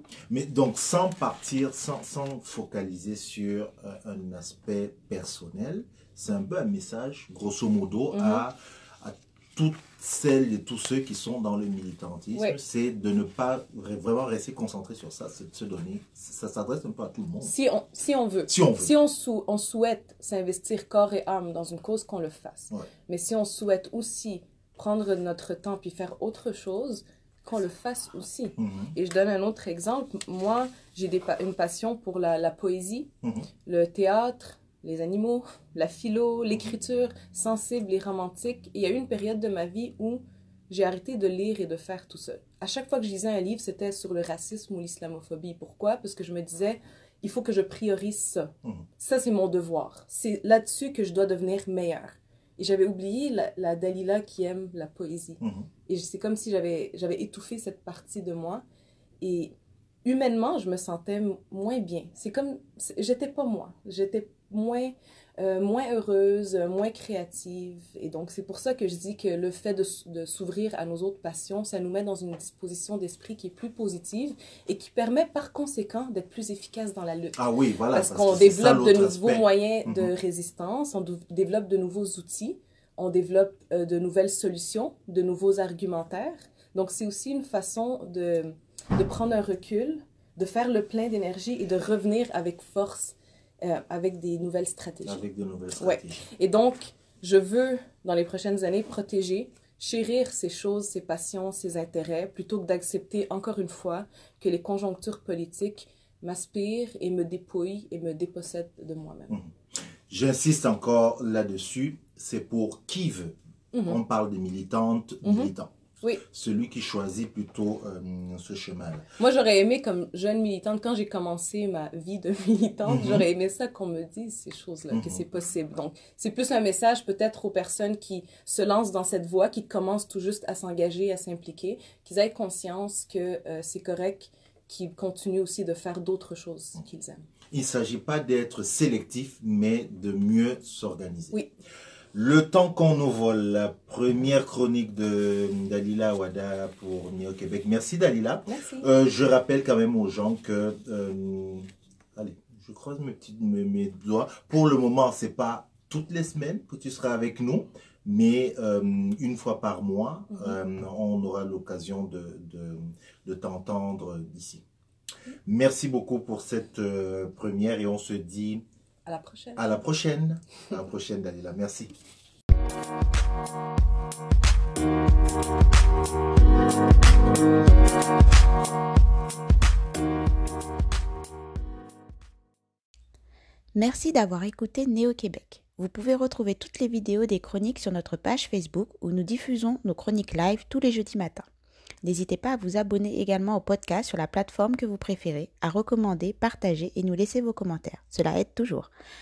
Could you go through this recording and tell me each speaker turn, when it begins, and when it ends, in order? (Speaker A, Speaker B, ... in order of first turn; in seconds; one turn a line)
Speaker A: 0.3-17.5
Speaker B: 8.1-8.4
Speaker B: 17.4-33.1
Speaker A: 18.5-18.9
Speaker A: 28.6-28.9
Speaker A: 33.2-33.5
Speaker B: 33.6-58.6
Speaker A: 55.4-55.7
Speaker B: 59.2-59.5
Speaker B: 60.0-77.4
Speaker A: 77.4-80.1
Speaker B: 77.9-95.2
Speaker A: 95.0-96.2
Speaker B: 95.8-109.3
Speaker A: 110.1-115.7
Speaker B: 113.7-114.0
Speaker B: 115.2-116.2
Speaker A: 116.3-119.0
Speaker B: 119.2-137.2
Speaker A: 122.8-123.2
Speaker A: 124.9-125.2
Speaker A: 137.5-141.4
Speaker A: 142.1-164.6
Speaker B: 148.4-148.9
Speaker B: 160.3-160.6
Speaker A: 165.4-168.6
Speaker B: 169.1-169.7
Speaker A: 169.6-171.9
Speaker C: 183.7-191.4
Speaker C: 192.0-198.9